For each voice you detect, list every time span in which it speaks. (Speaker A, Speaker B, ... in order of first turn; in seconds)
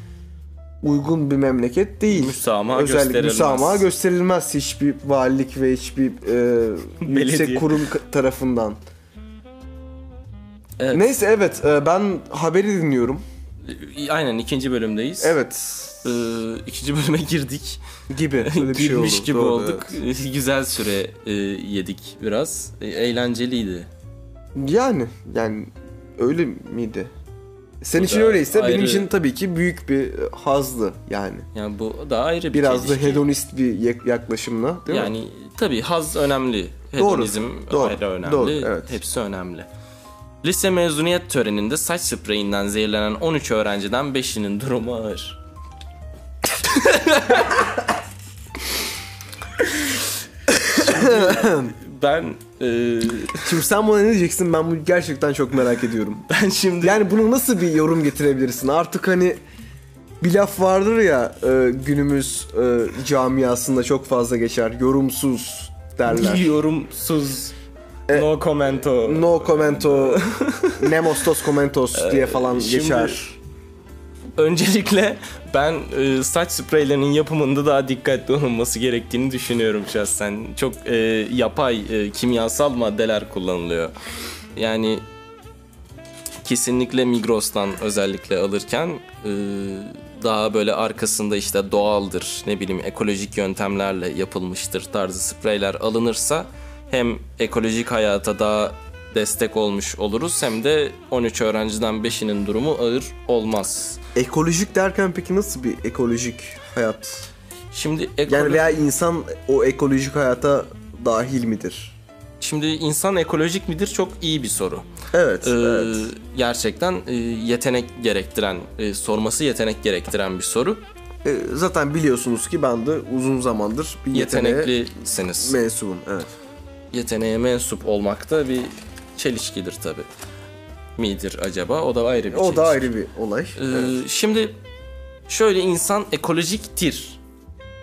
Speaker A: 0.8-8.8, 10.9-13.2, 15.2-16.0, 18.1-19.9, 24.5-27.1, 27.8-31.5, 32.5-35.1, 37.0-39.0, 50.5-51.8, 53.4-56.2, 56.8-59.4, 60.2-66.5, 68.1-73.3, 104.2-107.3, 108.3-112.0, 115.1-116.1, 121.2-124.8, 125.4-126.3, 132.3-134.0
Speaker B: 2.1-3.9, 7.0-7.8, 10.8-11.1, 13.7-15.4, 16.0-17.8, 18.4-23.9, 27.9-29.1, 31.5-33.2, 34.9-39.7, 40.4-45.4, 46.6-47.7, 50.6-53.5, 56.3-57.0, 66.1-67.5, 68.1-71.2, 71.9-73.3, 74.4-84.0, 84.6-85.0, 86.4-104.0, 107.7-108.8, 112.4-114.9, 115.4-120.8, 124.1-125.6, 126.9-130.1, 131.0-132.9, 133.6-134.6, 135.3-137.2